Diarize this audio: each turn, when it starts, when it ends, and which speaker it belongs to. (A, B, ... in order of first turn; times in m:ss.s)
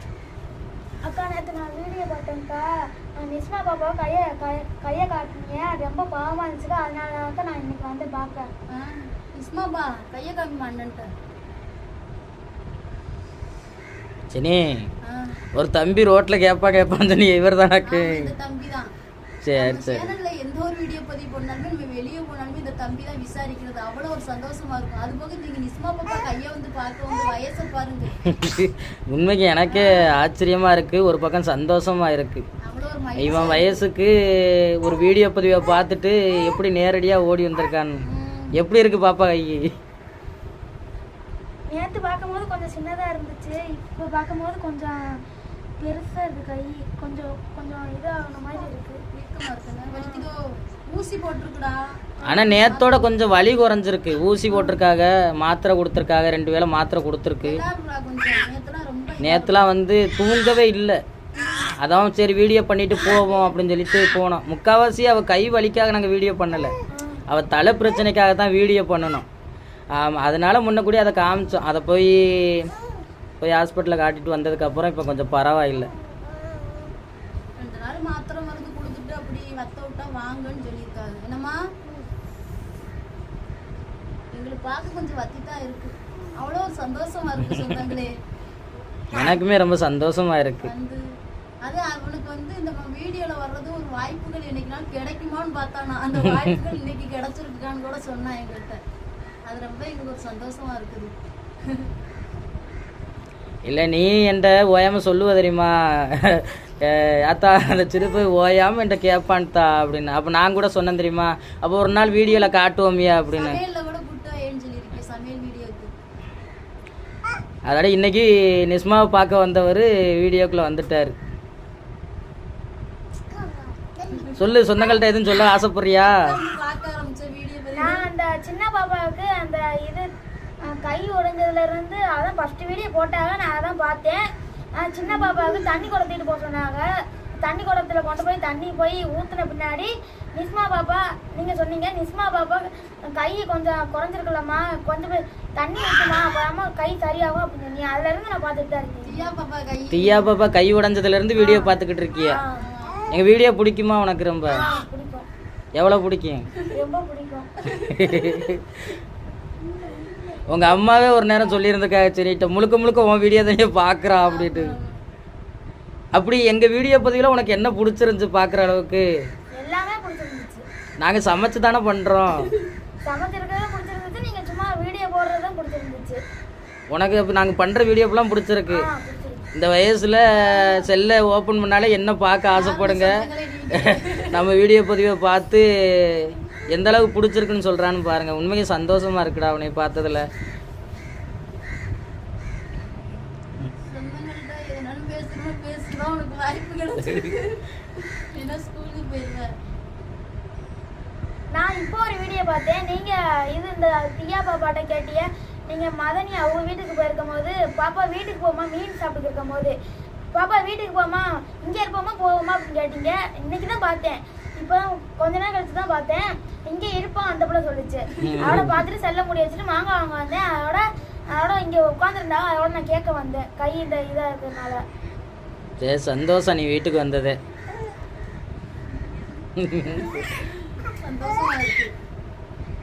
0:01.0-0:08.5 A
0:08.7-0:11.1 B
0:14.3-0:14.9 C
0:15.0-0:15.4 B
0:15.5-0:18.3 C
0:17.8-0:18.9 B
0:19.4-0:20.1 C
0:19.6-0:28.2 B
0:28.2-0:32.4 C
0:29.7-0:30.0 B
0:32.6-0:33.8 B
0:33.2-0:38.0 C
0:38.0-0:38.6 B
0:38.6-0:39.7 C
0:41.7-0:45.2 A
0:45.8-0:49.0 A
0:49.1-0:51.8 B
0:49.9-0:50.3 A
0:52.2-0:52.7 A
0:52.3-0:57.6 C
0:52.4-0:53.0 B
0:57.4-0:59.6 B
0:59.2-1:01.0 C
1:01.7-1:06.7 C
1:06.9-1:07.2 A
1:07.3-1:09.2 C
1:09.9-1:12.7 C
1:13.4-1:15.9 C
1:17.6-1:21.6 B
1:24.3-1:28.1 B
1:29.1-1:30.7 C
1:30.6-1:31.0 B
1:31.6-1:38.8 B
1:39.5-1:41.2 B
1:43.7-1:53.6 C
1:53.3-1:55.9 B
1:57.7-2:01.2 C
2:04.0-2:04.6 B
2:04.4-2:06.2 C
2:06.0-2:08.1 B
2:07.8-2:10.1 A
2:10.6-2:14.2 A
2:14.8-2:16.9 A
2:15.1-2:15.8 B
2:17.4-2:29.3 A
2:29.0-2:30.3 B
2:29.9-2:32.4 C
2:31.4-2:31.7 A
2:32.3-2:32.6 A
2:32.5-2:33.1 B
2:33.1-2:34.6 C
2:34.5-2:35.3 A
2:35.8-2:36.5 C
2:36.7-2:37.5 A
2:37.8-2:38.2 B
2:37.9-2:38.6 C
2:40.5-2:44.8 C
2:44.3-2:45.0 B
2:46.1-2:49.1 C
2:49.6-2:50.6 A
2:51.0-2:52.5 C
2:53.0-2:56.2 A
2:56.9-2:58.9 C
2:58.7-2:59.5 A
2:59.5-3:10.3 C
3:02.5-3:04.4 B
3:13.9-3:19.5 B
3:21.5-3:29.8 A
3:30.3-3:44.8 A
3:38.2-3:38.8 C
3:45.8-3:47.4 C
3:49.6-3:50.2 C
3:50.0-3:51.9 B